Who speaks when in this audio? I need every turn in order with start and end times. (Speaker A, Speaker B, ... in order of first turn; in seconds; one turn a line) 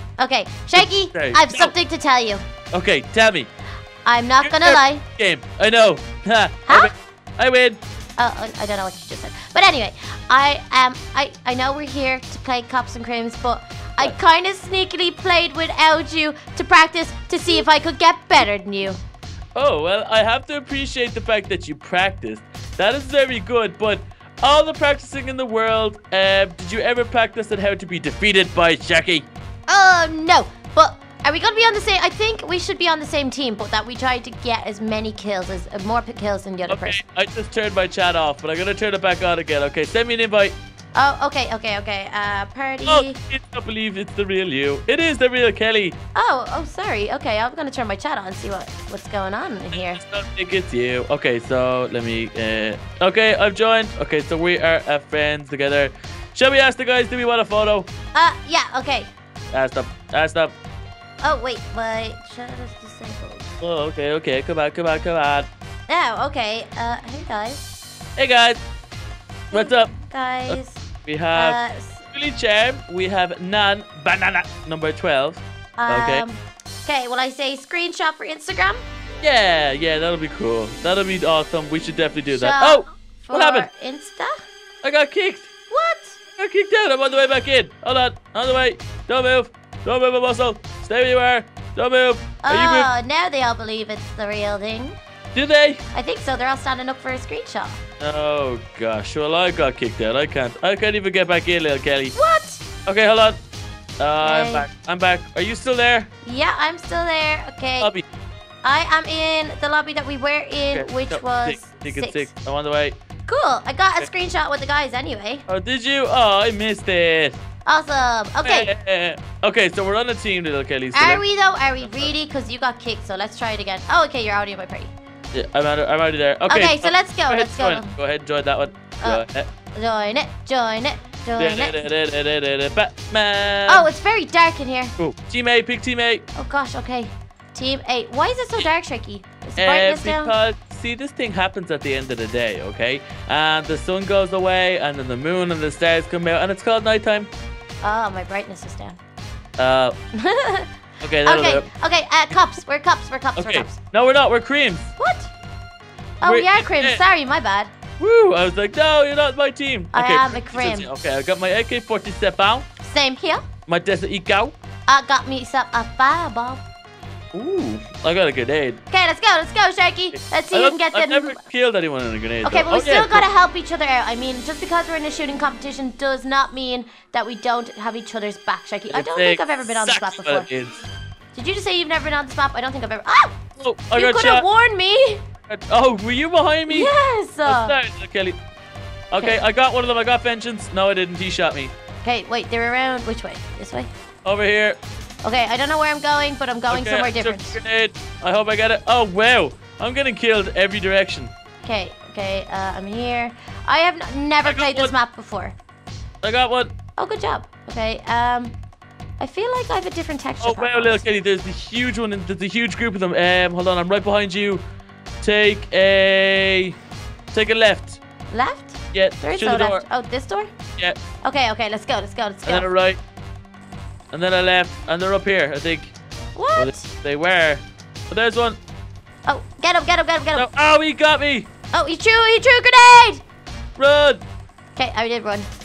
Speaker A: 0.2-2.5
Speaker B: 0.8-1.7
Speaker B: 2.7-3.5
Speaker A: 4.0-5.0
Speaker B: 4.4-7.8
Speaker A: 6.7-6.9
Speaker A: 8.2-19.0
Speaker B: 19.6-29.3
Speaker A: 29.7-37.0
Speaker B: 36.7-40.6
Speaker A: 41.0-43.2
Speaker B: 42.9-46.0
Speaker A: 46.1-50.0
Speaker B: 49.7-57.9
Speaker A: 58.1-59.1
Speaker B: 59.5-60.5
Speaker A: 61.2-63.5
Speaker B: 63.6-65.5
Speaker A: 65.9-67.8
Speaker B: 68.2-68.6
Speaker B: 69.5-69.9
Speaker A: 69.5-72.1
Speaker B: 70.5-71.6
Speaker B: 72.1-76.2
Speaker A: 75.8-78.8
Speaker B: 79.2-83.7
Speaker A: 82.3-84.4
Speaker B: 84.8-85.5
Speaker A: 85.7-86.2
Speaker B: 86.4-92.9
Speaker A: 92.4-95.0
Speaker B: 95.3-95.8
Speaker A: 95.9-97.8
Speaker B: 98.0-102.2
Speaker A: 102.2-102.6
Speaker B: 102.9-103.4
Speaker B: 104.0-106.1
Speaker A: 104.2-104.7
Speaker A: 106.2-107.9
Speaker B: 107.8-108.0
Speaker A: 108.6-112.3
Speaker B: 110.7-113.0
Speaker A: 113.3-115.5
Speaker B: 115.5-117.4
Speaker A: 117.7-118.7
Speaker B: 118.4-121.2
Speaker A: 120.9-124.9
Speaker B: 121.8-122.1
Speaker B: 125.3-129.5
Speaker A: 126.5-127.9
Speaker A: 129.0-131.9
Speaker B: 131.4-133.9
Speaker A: 133.7-134.9
Speaker B: 135.0-136.2
Speaker A: 136.4-140.3
Speaker B: 139.6-147.3
Speaker A: 147.8-149.0
Speaker B: 149.6-149.9
Speaker A: 150.2-150.7
Speaker B: 151.0-151.7
Speaker A: 151.2-153.8
Speaker B: 153.4-154.9
Speaker A: 155.0-155.3
Speaker B: 156.2-157.0
Speaker A: 156.2-157.7
Speaker B: 158.0-162.7
Speaker A: 159.9-160.9
Speaker A: 162.8-163.4
Speaker B: 163.7-164.6
Speaker A: 164.9-166.7
Speaker B: 167.3-168.8
Speaker A: 168.9-171.4
Speaker B: 170.1-173.3
Speaker A: 172.4-180.5
Speaker B: 178.9-180.8
Speaker A: 181.3-183.4
Speaker B: 183.6-184.5
Speaker A: 183.9-185.2
Speaker B: 185.5-186.9
Speaker A: 186.7-187.8
Speaker B: 187.4-188.4
Speaker B: 189.1-191.7
Speaker A: 189.2-189.4
Speaker A: 192.0-193.9
Speaker B: 194.2-194.8
Speaker A: 195.2-197.6
Speaker B: 196.7-201.3
Speaker A: 201.6-205.6
Speaker B: 204.4-204.9
Speaker B: 206.2-206.7
Speaker A: 207.0-208.6
Speaker A: 209.2-211.0
Speaker B: 210.4-214.6
Speaker B: 215.2-216.8
Speaker B: 217.3-218.0
Speaker A: 218.3-220.5
Speaker B: 218.9-219.8
Speaker A: 221.2-222.7
Speaker B: 222.5-223.0
Speaker B: 224.1-225.9
Speaker A: 226.4-226.9
Speaker B: 226.6-228.6
Speaker A: 229.3-230.5
Speaker B: 230.3-231.5
Speaker A: 231.7-233.2
Speaker B: 233.8-234.2
Speaker A: 234.8-235.5